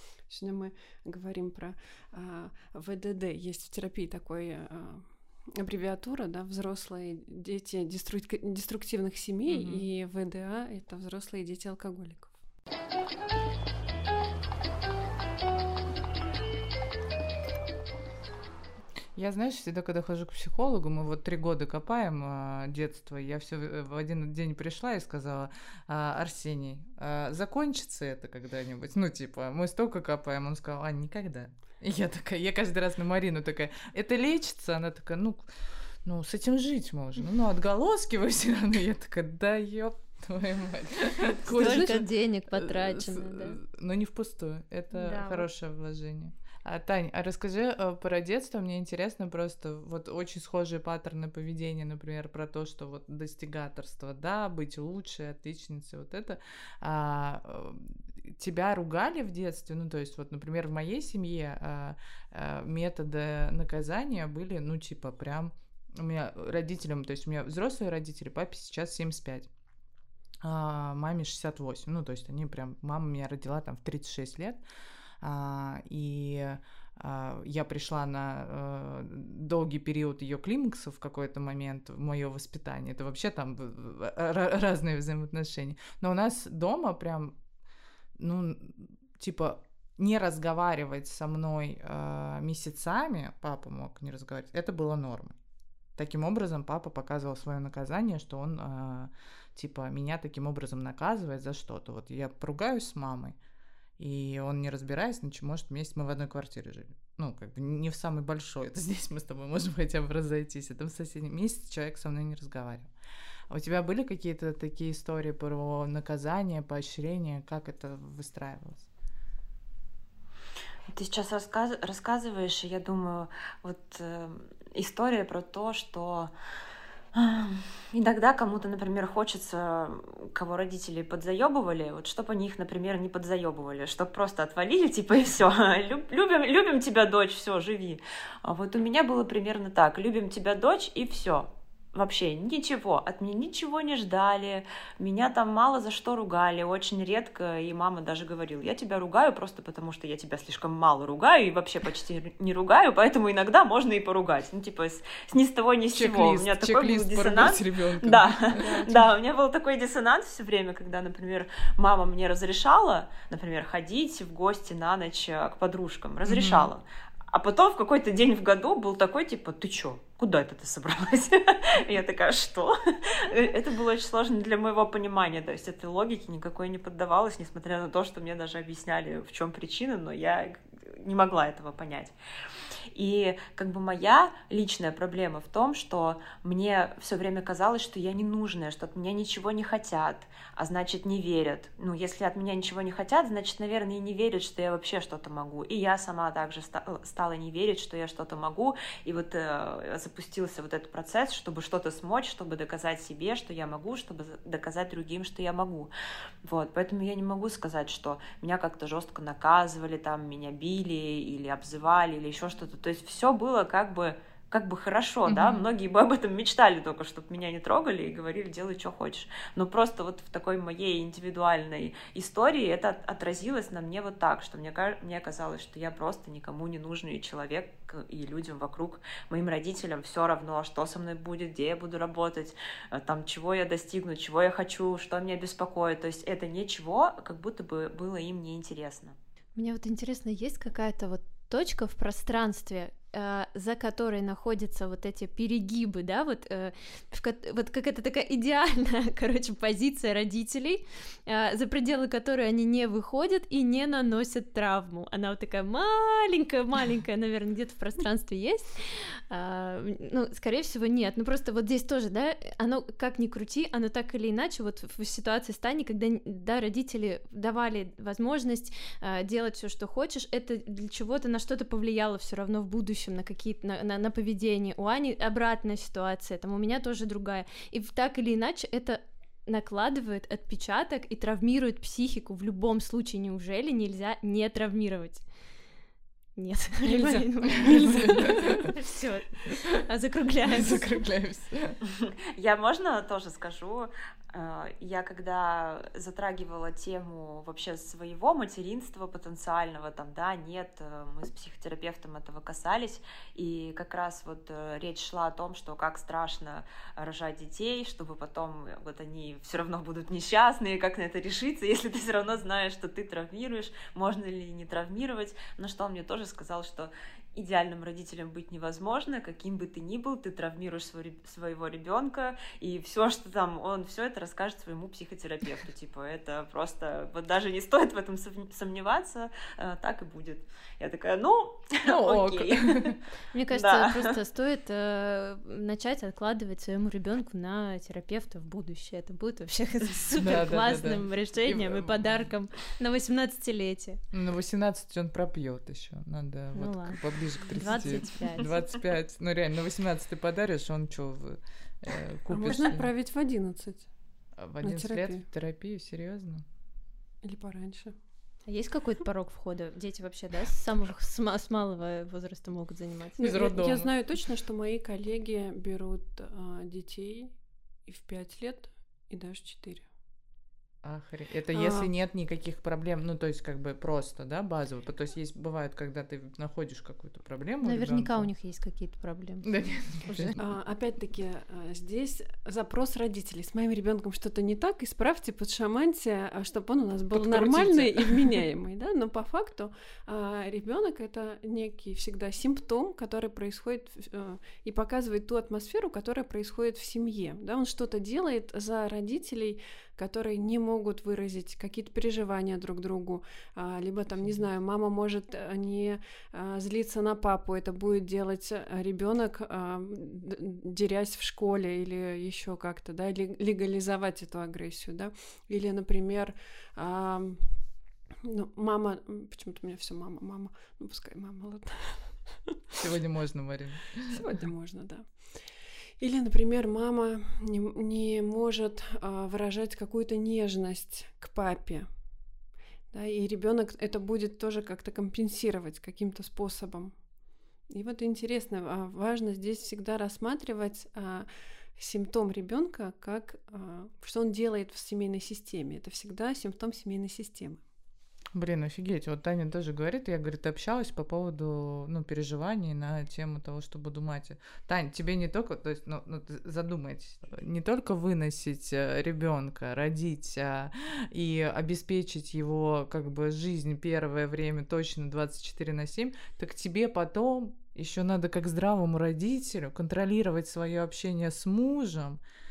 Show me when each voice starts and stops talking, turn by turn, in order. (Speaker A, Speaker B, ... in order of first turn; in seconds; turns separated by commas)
Speaker A: 0.3-12.3, Speaker B: 9.5-9.9, Speaker B: 19.1-35.5, Speaker B: 36.0-69.5, Speaker C: 41.5-43.6, Speaker C: 44.9-45.5, Speaker B: 70.4-74.6, Speaker B: 75.2-87.4, Speaker B: 88.2-95.4, Speaker B: 96.0-103.4, Speaker B: 104.0-112.9, Speaker B: 113.5-118.9, Speaker D: 120.9-126.3, Speaker D: 127.1-182.1, Speaker B: 155.9-158.6, Speaker C: 158.5-159.0, Speaker B: 166.2-166.7, Speaker D: 182.9-205.9, Speaker D: 206.4-239.1, Speaker B: 215.3-215.7, Speaker C: 239.6-285.2, Speaker C: 286.4-291.0, Speaker A: 286.8-288.6, Speaker B: 287.5-288.7, Speaker B: 290.5-291.8, Speaker D: 291.9-333.0, Speaker B: 331.8-333.0, Speaker C: 333.3-344.0, Speaker D: 333.5-334.1, Speaker B: 340.2-342.3, Speaker B: 344.1-352.9, Speaker C: 346.6-348.6, Speaker A: 352.3-353.9, Speaker B: 354.4-356.4, Speaker A: 354.6-355.3, Speaker A: 357.2-357.9, Speaker C: 358.5-363.2, Speaker A: 363.2-367.4, Speaker B: 363.2-363.9, Speaker A: 367.9-369.9, Speaker B: 370.8-378.3, Speaker A: 371.5-371.9, Speaker C: 377.6-380.4, Speaker B: 379.4-380.4, Speaker A: 380.4-417.5, Speaker B: 387.1-388.4, Speaker B: 404.2-404.4, Speaker A: 418.2-422.8, Speaker B: 422.8-424.2, Speaker A: 424.1-425.4, Speaker A: 426.0-431.9, Speaker A: 432.9-436.9, Speaker A: 437.7-447.6, Speaker B: 448.4-472.2